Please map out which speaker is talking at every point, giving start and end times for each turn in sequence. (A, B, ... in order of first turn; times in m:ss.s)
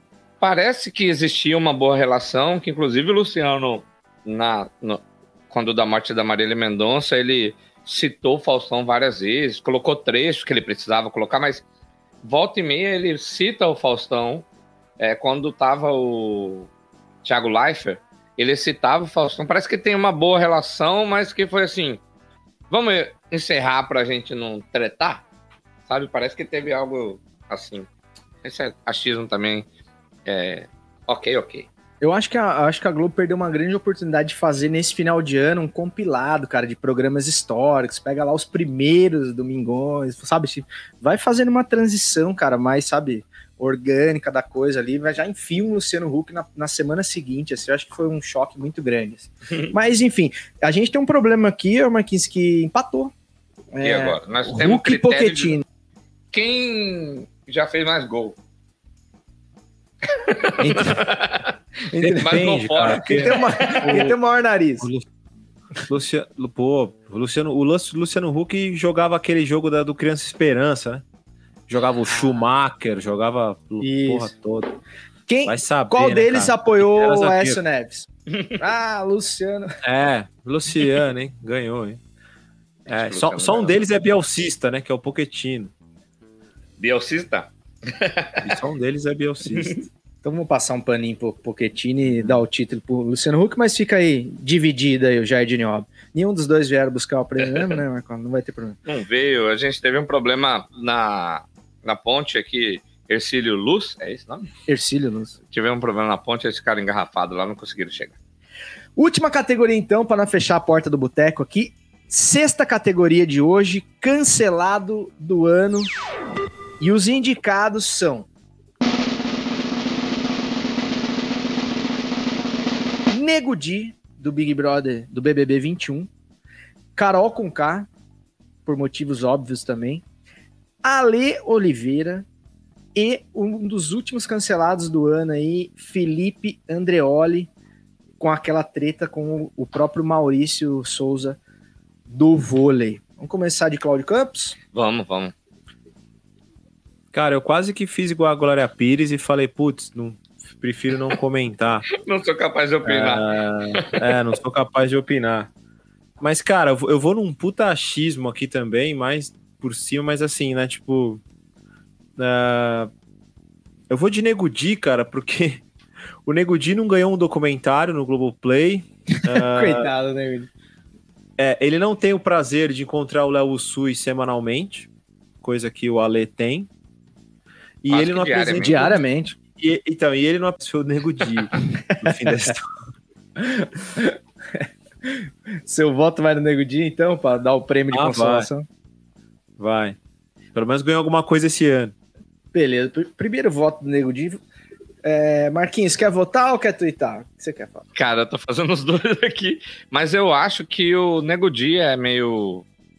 0:00.4-0:11.6 A
0:12.2-0:14.4 A
0:15.0-0:16.7 A
0:17.2-0:22.0 A
0:22.7-0:25.2 A
0:25.9-0:27.9 A
0:28.4-0:29.6 A
0:30.2-0:31.7 A
0:32.0-0:53.1 B
0:53.7-0:55.6 B
0:53.8-0:55.5 A
0:56.3-0:58.4 A
1:00.1-1:03.8 A
1:00.6-1:01.1 B
1:02.0-1:04.2 C
1:02.0-1:02.2 B
1:02.8-1:04.9 B
1:04.8-1:05.0 C
1:05.9-1:11.0 C
1:11.7-1:14.8 C
1:12.0-1:12.4 A
1:13.8-1:14.3 B
1:15.3-1:19.8 B
1:15.4-1:17.6 C
1:19.8-1:22.0 C
1:22.9-1:25.7 C
1:22.9-1:23.8 A
1:26.8-1:28.5 A
1:28.4-1:29.8 C
1:30.2-1:38.8 B
1:37.4-1:37.8 A
1:38.8-1:44.5 A
1:44.7-1:45.4 B
1:45.5-1:48.2 A
1:49.0-1:55.9 B
1:56.8-1:58.3 B
2:03.1-2:06.1 B
2:07.0-2:07.9 B
2:08.6-2:10.0 B
2:10.8-2:12.2 B
2:12.9-2:17.5 B
2:18.2-2:21.4 B
2:22.1-2:24.6 B
2:24.7-2:25.3 A
2:27.1-2:31.8 C
2:32.0-2:33.9 A
2:32.8-2:35.5 C
2:36.2-2:41.2 C
2:42.2-2:42.9 C
2:43.9-2:45.6 C
2:46.2-2:49.9 C
2:49.2-2:50.5 B
2:51.4-2:54.9 C
2:55.4-2:56.7 C
2:57.8-2:59.0 C
2:57.9-2:58.8 A
2:58.6-2:59.4 B
2:59.6-3:02.7 C
3:01.9-3:02.5 B
3:03.4-3:08.6 B
3:07.9-3:08.5 C
3:09.6-3:10.0 C
3:10.5-3:11.9 C
3:12.5-3:14.4 B
3:15.0-3:17.8 B
3:17.9-3:22.6 A